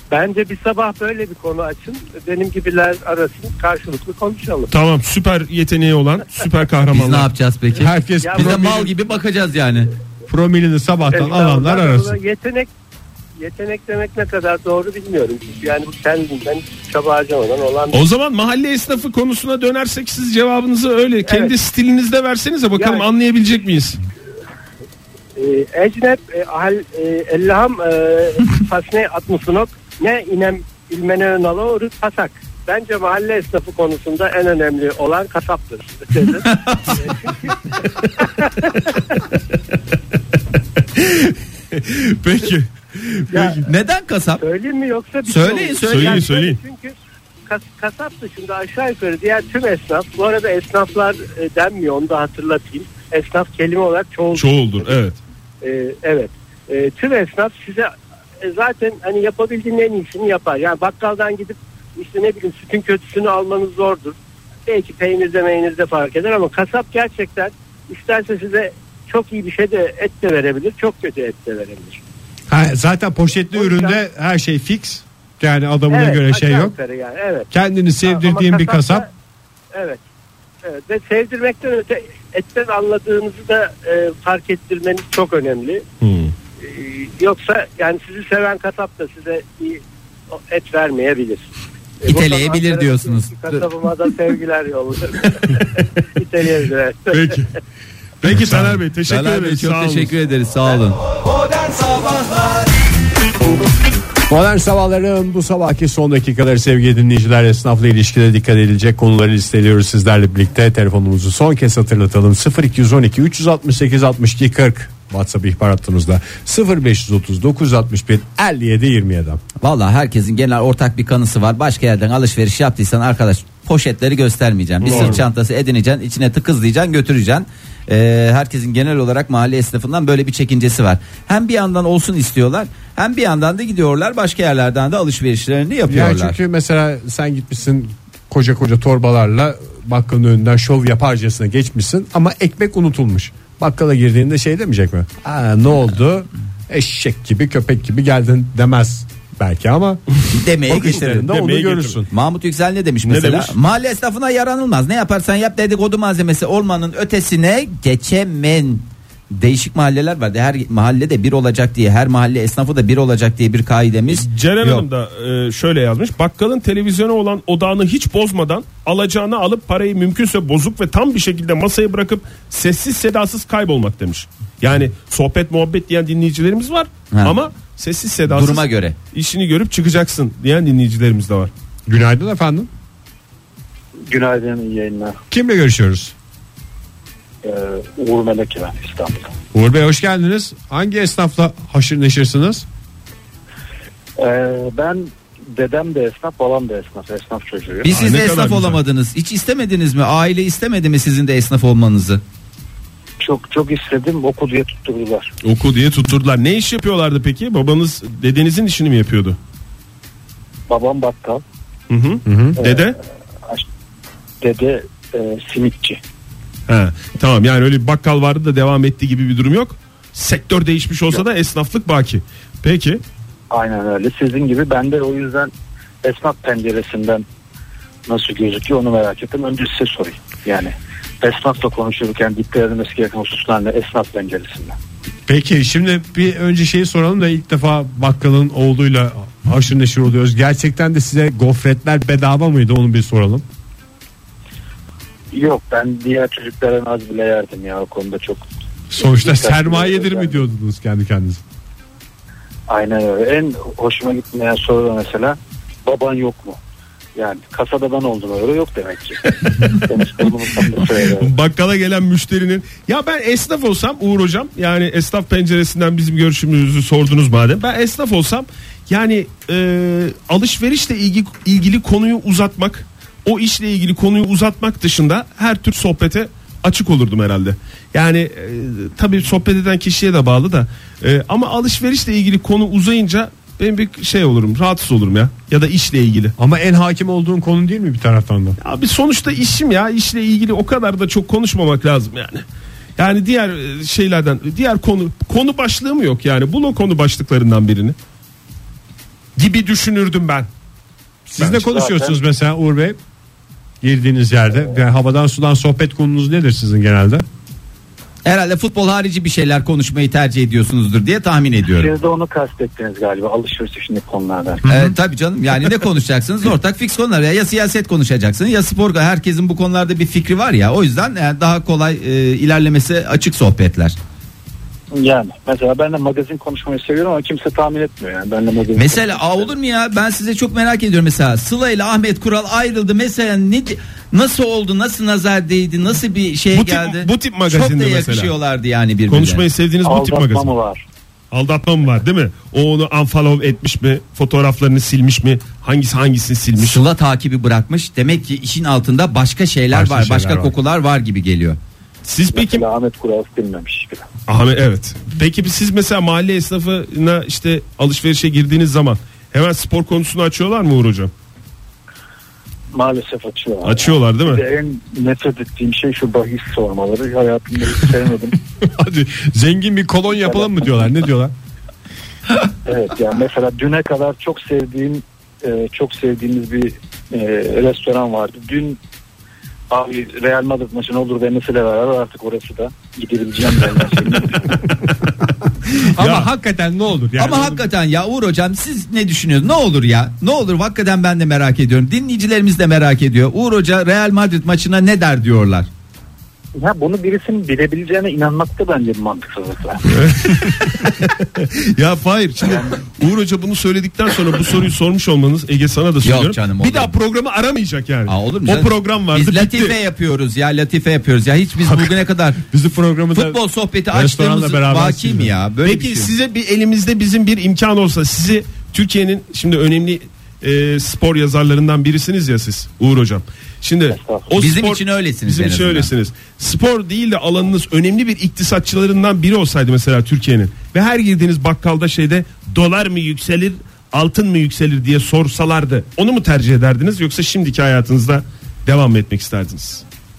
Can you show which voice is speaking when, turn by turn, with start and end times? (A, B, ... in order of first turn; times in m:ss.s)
0:00.1-0:04.7 A
0:04.7-0:07.3 B
0:06.9-0:09.9 C
0:07.8-0:08.9 D
0:08.2-0:08.8 A
0:10.3-0:12.2 D
0:11.1-0:12.7 A
0:13.4-0:18.0 A
0:17.9-0:24.0 B
0:21.2-0:21.5 A
0:22.7-0:23.0 A
0:25.4-0:37.5 A
0:36.4-0:36.9 C
0:40.9-0:43.6 B
0:43.3-0:43.6 A
0:43.6-0:44.4 C
0:44.4-0:46.9 A
0:45.2-0:46.2 C
0:45.8-0:46.6 B
0:47.5-0:55.0 A
0:54.3-0:55.2 B
0:55.6-1:04.2 A
1:04.7-1:12.0 A
1:12.5-1:16.8 D
1:13.5-1:14.0 A
1:15.9-1:17.5 A
1:17.5-1:19.1 D
1:18.0-1:19.1 A
1:19.7-1:20.0 A
1:20.6-1:25.8 A
1:26.0-1:26.3 B
1:26.6-1:29.8 A
1:30.3-1:31.5 A
1:32.0-1:33.7 C
1:32.0-1:37.4 A
1:37.1-1:37.4 B
1:38.2-1:38.8 D
1:38.2-1:40.1 B
1:39.1-1:41.0 C
1:44.3-1:59.4 D
1:59.6-2:16.4 C
2:04.8-2:05.2 B
2:04.9-2:05.2 D
2:15.9-2:30.0 D
2:30.3-2:31.3 C
2:30.6-2:32.1 D
2:31.3-2:32.0 B
2:32.1-2:44.8 C
2:33.0-2:33.5 B
2:44.1-3:01.5 B
2:58.3-2:59.0 C
3:01.9-3:02.7 D
3:04.1-3:05.2 E
3:05.3-3:06.1 D
3:07.4-3:09.3 E
3:09.5-3:12.6 D
3:14.2-3:17.9 E
3:17.8-3:22.2 C
3:17.9-3:18.8 B
3:23.2-3:25.3 E
3:25.4-3:29.4 B
3:30.7-3:31.4 E
3:31.9-3:32.9 B
3:32.2-3:32.6 D
3:32.6-3:33.6 E
3:34.4-3:36.0 E
3:36.7-3:43.0 B
3:43.5-3:45.5 E
3:46.0-3:47.2 E
3:48.1-3:54.8 E
3:55.3-4:03.4 D
4:05.3-4:08.4 E
4:08.9-4:11.4 D
4:09.0-4:10.4 E
4:12.7-4:16.6 E
4:17.1-4:21.3 E
4:20.7-4:46.3 B
4:46.4-4:48.6 D
4:48.6-4:52.4 B
4:53.0-4:58.0 B
4:59.4-5:00.5 B
5:01.3-5:03.0 D
5:01.4-5:02.2 E
5:03.8-5:07.2 D
5:08.2-5:11.9 C
5:11.7-5:14.6 E
5:14.6-5:14.9 D
5:14.7-5:24.0 C
5:24.9-5:29.5 E
5:28.7-5:39.4 C
5:36.5-5:38.3 B
5:39.1-5:40.5 B
5:39.8-5:40.8 E
5:41.3-5:46.8 B
5:46.6-5:51.6 C
5:49.7-5:50.5 D
5:52.0-5:52.6 B
5:52.3-5:54.0 E
5:54.3-6:01.1 B
6:02.7-6:08.4 E
6:03.6-6:04.4 B
6:08.6-6:11.3 D
6:10.2-6:10.6 E
6:12.6-6:18.8 E
6:19.7-6:24.4 E
6:25.9-6:27.6 D
6:26.0-6:26.3 B
6:27.2-6:35.7 C
6:36.6-6:39.8 E
6:39.9-6:49.7 B
6:46.0-6:46.9 C
6:48.1-6:52.4 C
6:52.5-6:53.4 D
6:53.1-6:56.1 C
6:53.9-6:55.3 D
6:55.6-7:19.8 B
7:03.9-7:04.3 E
7:04.4-7:05.9 C